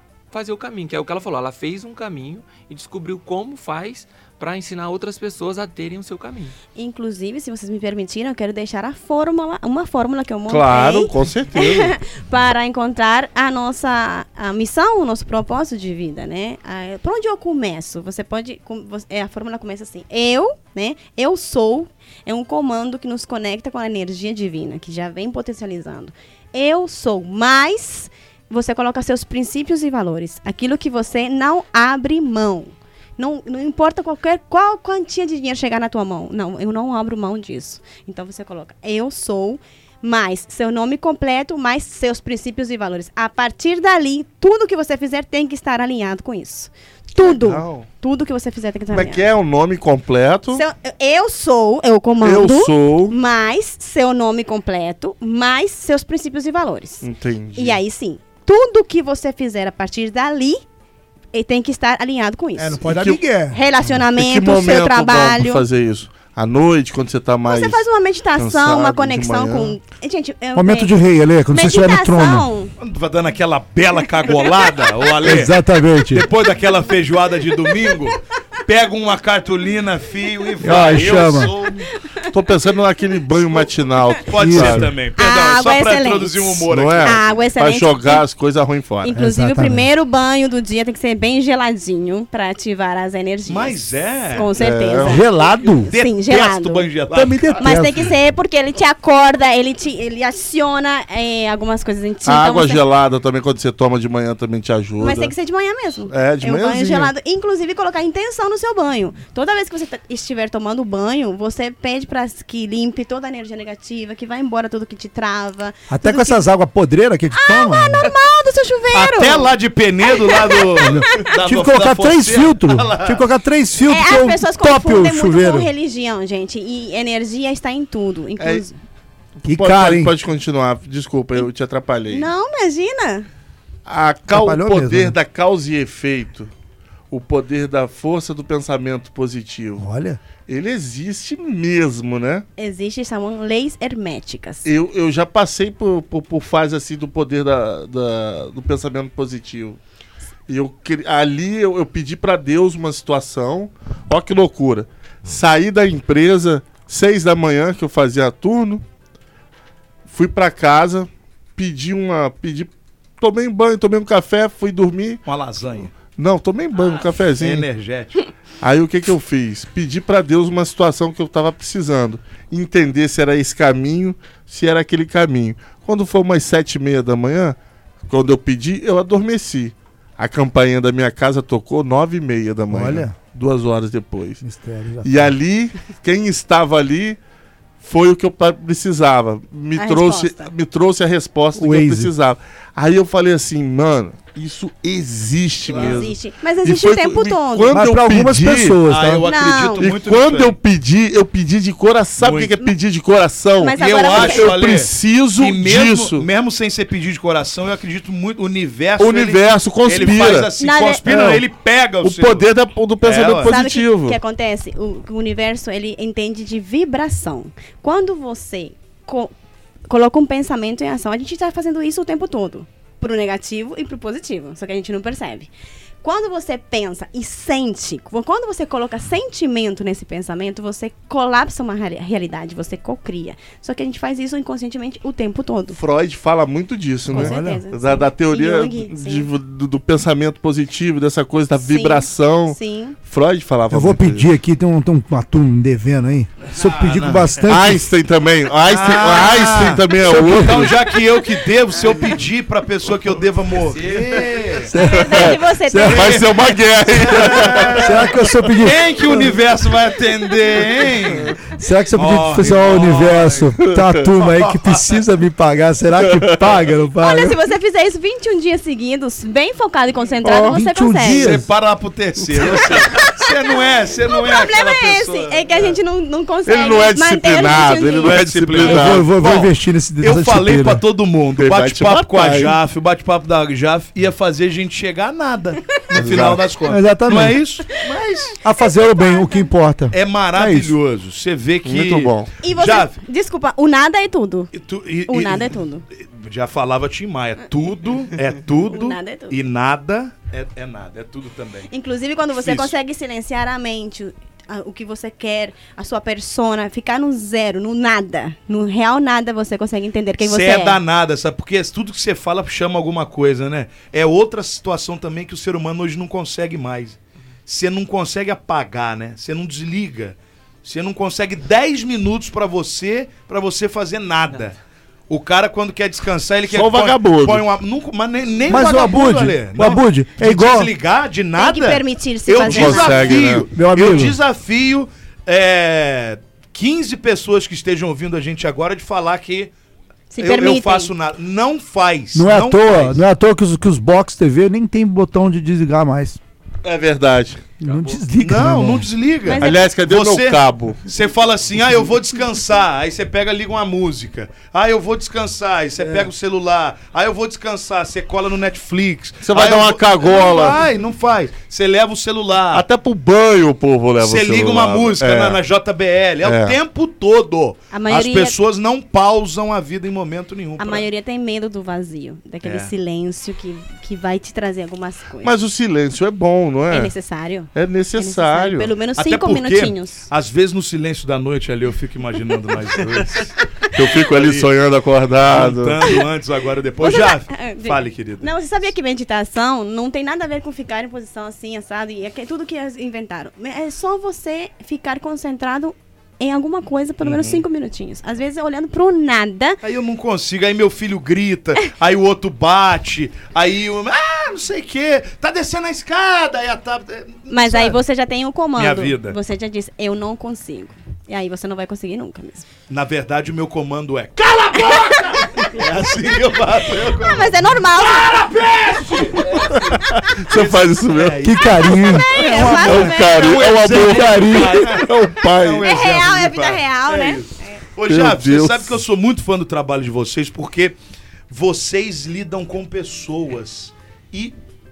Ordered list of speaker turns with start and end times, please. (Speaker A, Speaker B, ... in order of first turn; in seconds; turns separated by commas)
Speaker A: 0.3-6.5, Speaker B: 6.7-49.2, Speaker C: 10.5-11.9, Speaker C: 47.2-47.9, Speaker C: 48.9-50.6, Speaker B: 50.5-60.6, Speaker C: 52.2-53.1, Speaker C: 57.0-57.8, Speaker B: 61.3-62.8, Speaker D: 62.5-63.6, Speaker C: 62.9-63.2, Speaker B: 63.5-65.6, Speaker C: 64.1-67.8, Speaker B: 67.5-71.0, Speaker C: 68.4-69.8, Speaker D: 70.5-72.5, Speaker B: 71.5-72.7, Speaker E: 72.8-75.5, Speaker D: 75.2-76.3, Speaker E: 76.1-81.8, Speaker D: 80.6-81.5, Speaker C: 82.3-84.9, Speaker E: 84.3-87.2, Speaker D: 84.4-84.9, Speaker B: 85.2-88.2, Speaker C: 86.7-89.2, Speaker B: 89.0-93.8, Speaker D: 89.2-89.9, Speaker E: 93.5-94.5, Speaker B: 94.3-96.9, Speaker C: 94.5-95.2, Speaker D: 95.0-95.9, Speaker E: 95.9-97.6, Speaker D: 97.1-98.1, Speaker B: 97.6-102.8, Speaker C: 102.2-105.3, Speaker B: 105.0-116.4, Speaker C: 106.1-107.1, Speaker D: 115.9-118.1, Speaker B: 117.3-119.5, Speaker E: 118.9-123.2, Speaker B: 120.2-121.3, Speaker D: 120.8-125.7, Speaker B: 123.9-128.8, Speaker D: 129.4-130.1, Speaker C: 129.4-132.3, Speaker B: 132.1-133.3, Speaker C: 133.8-136.5, Speaker D: 134.3-135.2, Speaker C: 137.1-139.8, Speaker D: 139.8-140.2, Speaker C: 140.5-142.4, Speaker B: 142.6-144.7, Speaker C: 144.6-149.8, Speaker C: 150.5-158.8, Speaker C: 160.1-165.2, Speaker E: 165.2-165.9, Speaker C: 166.1-167.7, Speaker E: 167.3-168.2, Speaker C: 168.6-184.4, Speaker D: 182.7-183.1, Speaker D: 184.4-185.3, Speaker C: 185.0-187.2, Speaker C: 187.8-198.8, Speaker B: 189.8-190.5, Speaker D: 191.6-192.1, Speaker E: 195.7-196.0, Speaker B: 195.7-197.8, Speaker D: 197.7-199.3, Speaker E: 198.8-200.6, Speaker B: 199.2-199.9, Speaker C: 199.8-206.3, Speaker E: 202.2-202.6, Speaker B: 203.6-204.5, Speaker E: 203.7-212.5, Speaker C: 209.0-210.5, Speaker B: 210.6-211.1, Speaker C: 211.1-211.4, Speaker C: 212.0-214.2, Speaker E: 213.0-213.5, Speaker B: 213.5-219.3, Speaker B: 219.9-225.5, Speaker B: 226.0-235.8, Speaker C: 235.7-244.3, Speaker B: 237.1-239.3, Speaker D: 237.1-237.6, Speaker B: 241.6-243.0, Speaker D: 243.7-247.8, Speaker E: 246.6-247.3, Speaker C: 247.5-250.8, Speaker E: 248.7-254.7, Speaker D: 250.0-250.6, Speaker D: 254.6-256.2, Speaker B: 254.7-256.2, Speaker C: 255.0-258.6, Speaker E: 255.9-261.3, Speaker D: 257.0-259.3, Speaker D: 261.5-267.4, Speaker E: 261.9-263.6, Speaker C: 263.6-264.1, Speaker E: 264.2-264.8, Speaker C: 266.0-266.6, Speaker B: 267.0-271.4, Speaker C: 270.2-270.6, Speaker D: 270.5-271.4, Speaker E: 271.1-275.8, Speaker B: 274.1-278.2, Speaker C: 276.4-279.1, Speaker E: 278.0-288.4, Speaker D: 278.6-280.8, Speaker C: 281.4-282.6, Speaker C: 285.9-286.4, Speaker D: 286.1-287.4, Speaker D: 288.4-290.8, Speaker B: 288.9-289.4, Speaker E: 289.9-292.9, Speaker C: 291.6-292.3, Speaker B: 292.4-294.5, Speaker E: 294.5-301.7, Speaker B: 295.1-295.8, Speaker B: 298.7-299.4, Speaker B: 301.7-310.8, Speaker E: 302.4-302.7, Speaker E: 310.2-324.6, Speaker E: 325.1-339.5, Speaker C: 326.5-327.4, Speaker D: 328.5-330.7, Speaker B: 331.4-333.2, Speaker C: 332.4-333.5, Speaker D: 333.5-334.2, Speaker B: 340.1-340.9, Speaker E: 340.2-343.0, Speaker D: 342.1-346.2, Speaker C: 346.6-347.5, Speaker D: 347.6-348.9, Speaker E: 348.2-362.6, Speaker B: 349.2-349.6, Speaker C: 349.4-350.8, Speaker C: 359.2-360.6, Speaker C: 362.5-365.4, Speaker E: 364.0-370.8, Speaker C: 366.2-366.6, Speaker B: 367.7-368.4, Speaker B: 370.6-375.3, Speaker E: 372.4-372.7, Speaker C: 375.2-376.9, Speaker B: 376.7-380.1, Speaker C: 377.5-378.7, Speaker E: 378.9-384.5, Speaker C: 383.7-386.0, Speaker E: 385.3-388.3, Speaker B: 386.8-399.6, Speaker E: 397.0-397.4, Speaker E: 399.6-407.8, Speaker B: 407.3-412.5, Speaker E: 408.6-409.2, Speaker E: 412.7-430.8, Speaker B: 414.7-415.5, Speaker B: 416.6-418.1, Speaker C: 419.5-425.7, Speaker D: 421.2-422.1, Speaker B: 421.8-423.4, Speaker D: 423.6-424.8, Speaker B: 425.6-427.2, Speaker C: 427.9-428.8, Speaker E: 431.3-434.4